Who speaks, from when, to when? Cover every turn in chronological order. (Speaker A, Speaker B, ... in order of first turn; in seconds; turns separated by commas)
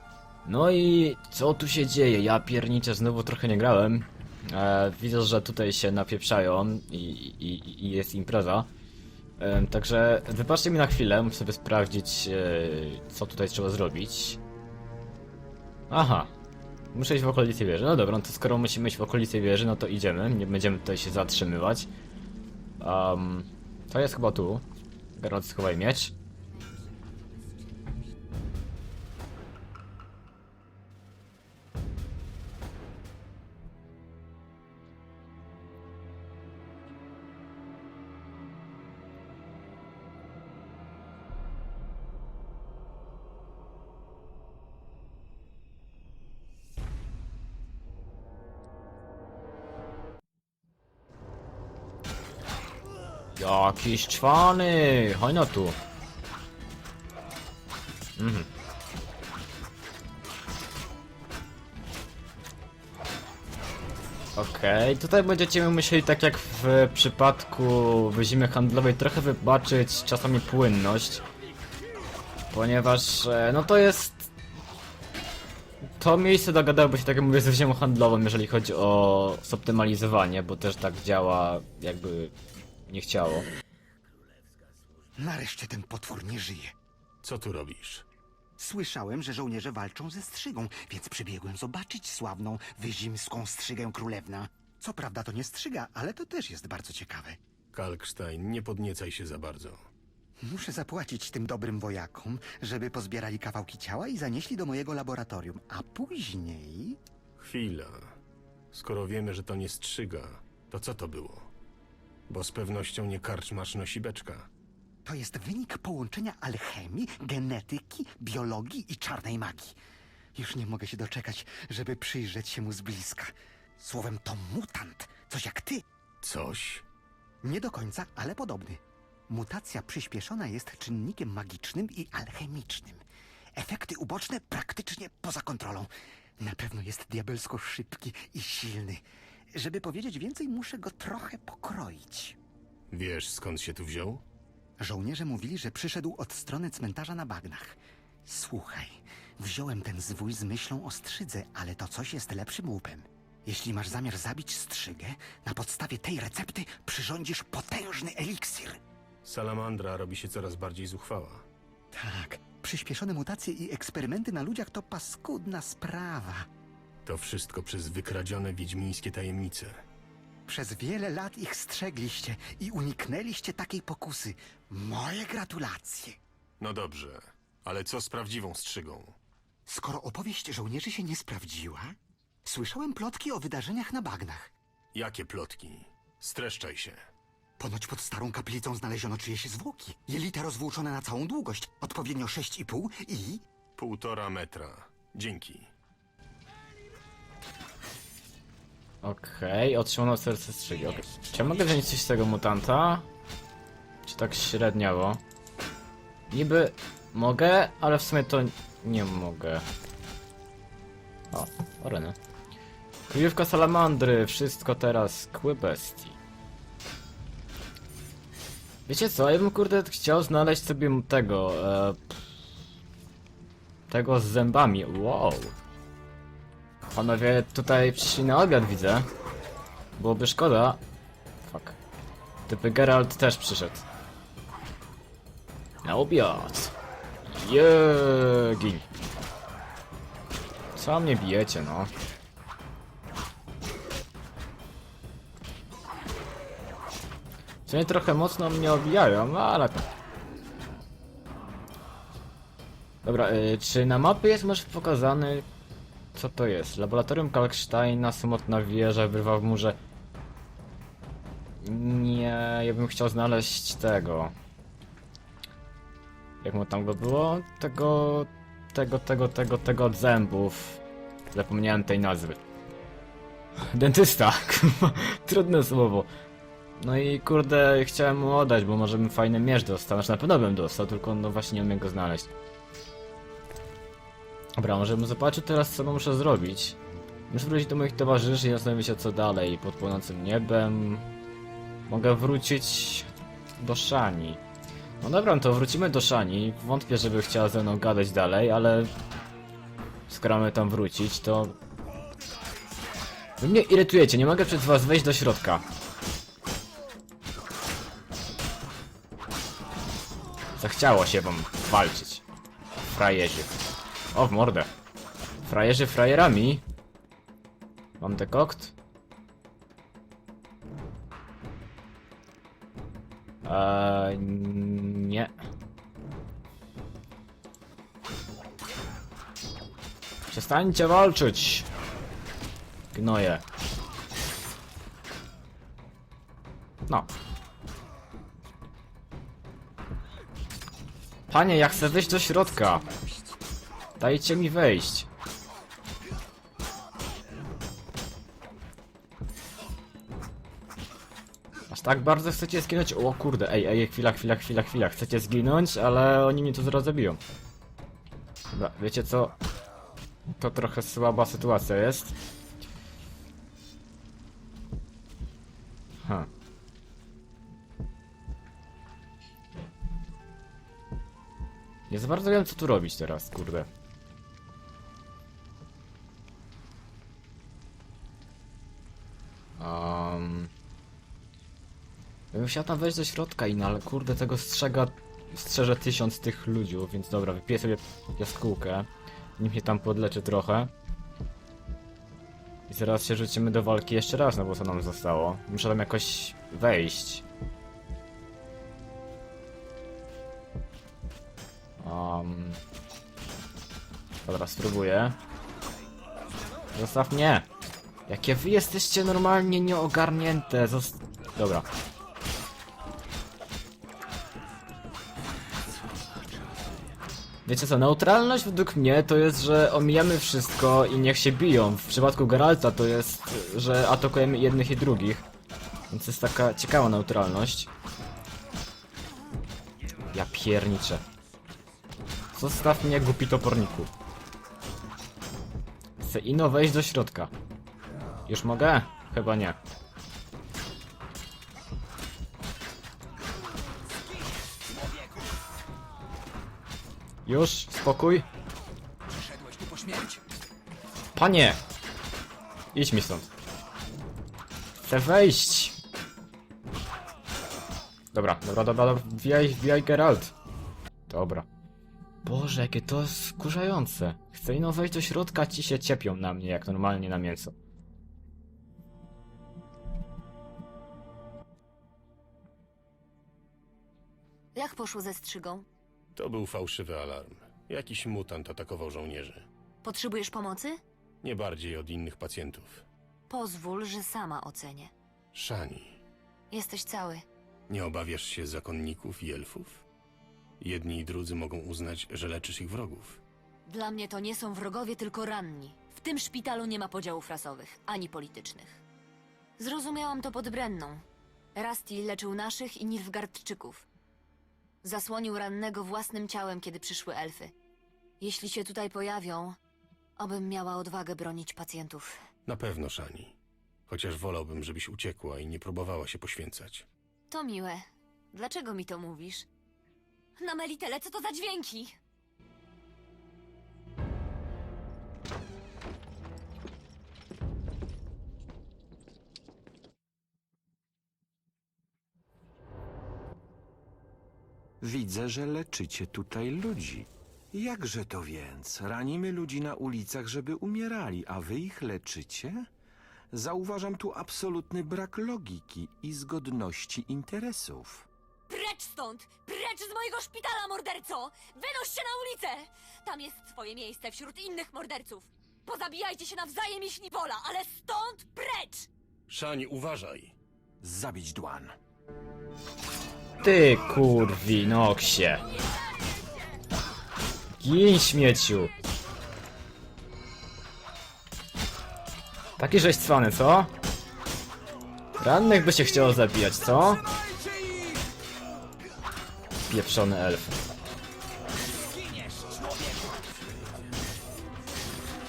Speaker A: 0.5-8.7, Speaker A: 9.4-14.4, Speaker A: 15.9-16.3, Speaker A: 16.9-21.9, Speaker A: 22.8-24.6, Speaker A: 25.2-26.1, Speaker A: 53.4-55.8, Speaker A: 58.2-58.5, Speaker A: 64.4-71.2, Speaker A: 72.5-74.3, Speaker A: 76.0-82.3, Speaker A: 82.9-83.5, Speaker B: 85.2-86.8, Speaker C: 87.2-88.1, Speaker B: 88.6-97.4, Speaker C: 97.7-99.8, Speaker B: 100.4-107.0, Speaker C: 107.4-108.1, Speaker C: 108.7-111.5, Speaker C: 112.3-114.5, Speaker B: 115.0-119.8, Speaker B: 120.3-125.8, Speaker C: 126.2-126.8, Speaker B: 127.4-133.0, Speaker B: 133.6-142.4, Speaker C: 142.9-144.2, Speaker B: 144.8-158.8, Speaker C: 159.2-161.4, Speaker B: 161.9-166.5, Speaker C: 167.1-169.8, Speaker B: 170.5-176.2, Speaker C: 176.6-179.2, Speaker B: 179.7-184.5, Speaker C: 184.9-187.0, Speaker B: 187.6-193.4, Speaker C: 193.8-195.7, Speaker A: 199.0-203.1, Speaker A: 204.1-205.2, Speaker A: 206.3-209.7, Speaker A: 211.3-212.2, Speaker A: 213.1-216.2, Speaker A: 218.9-222.2, Speaker A: 223.9-225.6, Speaker A: 226.9-229.1, Speaker A: 230.0-230.8, Speaker A: 231.4-231.8, Speaker A: 232.5-233.8, Speaker A: 235.8-236.7, Speaker A: 237.3-238.8, Speaker A: 240.8-241.9, Speaker A: 247.7-249.9, Speaker A: 253.0-255.5, Speaker A: 256.1-259.8, Speaker A: 261.6-264.3, Speaker A: 266.4-270.8, Speaker A: 271.3-272.4, Speaker A: 273.6-276.1, Speaker A: 276.8-282.3, Speaker A: 284.6-286.8, Speaker A: 287.3-291.1, Speaker A: 291.9-294.4, Speaker A: 295.0-298.9, Speaker A: 300.1-301.6, Speaker A: 303.4-305.6, Speaker A: 310.6-312.2, Speaker A: 312.9-313.5, Speaker A: 314.1-314.7, Speaker A: 315.4-316.6, Speaker A: 318.0-318.8, Speaker A: 323.4-325.3, Speaker A: 330.3-331.7, Speaker A: 332.9-333.4, Speaker A: 341.3-342.9, Speaker A: 344.0-345.1, Speaker A: 351.7-357.2, Speaker A: 358.5-359.4, Speaker A: 360.4-362.1, Speaker A: 366.0-366.3, Speaker A: 371.9-373.7, Speaker A: 379.6-380.5, Speaker A: 382.3-390.7, Speaker A: 392.7-397.2, Speaker A: 401.8-402.6, Speaker A: 404.2-405.2, Speaker A: 406.8-407.5, Speaker A: 408.1-411.7, Speaker D: 415.8-416.6, Speaker A: 417.5-425.2, Speaker A: 425.9-427.7, Speaker A: 430.1-431.0, Speaker A: 432.3-433.9, Speaker A: 436.0-437.3, Speaker A: 438.3-439.6, Speaker A: 447.3-448.3, Speaker D: 449.2-450.2, Speaker A: 451.1-451.6, Speaker A: 452.7-453.3, Speaker A: 454.8-455.8, Speaker A: 458.1-460.3, Speaker A: 461.1-461.5, Speaker A: 462.2-467.5, Speaker E: 474.6-475.6, Speaker C: 476.1-479.5, Speaker E: 479.8-480.8, Speaker C: 481.2-482.9, Speaker E: 483.3-484.9, Speaker C: 485.3-486.0, Speaker E: 486.5-487.2, Speaker C: 487.7-489.8, Speaker C: 490.6-493.2, Speaker E: 493.7-498.8, Speaker E: 499.6-501.0, Speaker E: 501.6-503.9, Speaker E: 504.8-507.5, Speaker E: 508.2-509.6, Speaker E: 510.2-512.2, Speaker C: 512.5-513.4, Speaker C: 513.9-516.9, Speaker E: 517.3-519.5, Speaker E: 520.4-522.0, Speaker D: 534.8-542.7, Speaker D: 543.3-548.1, Speaker E: 548.5-558.9, Speaker C: 559.3-560.4, Speaker D: 560.8-561.8, Speaker A: 563.4-565.4, Speaker A: 567.6-568.7, Speaker A: 572.6-573.7, Speaker A: 575.2-577.0, Speaker A: 579.7-580.6, Speaker E: 582.1-582.5, Speaker D: 583.1-583.7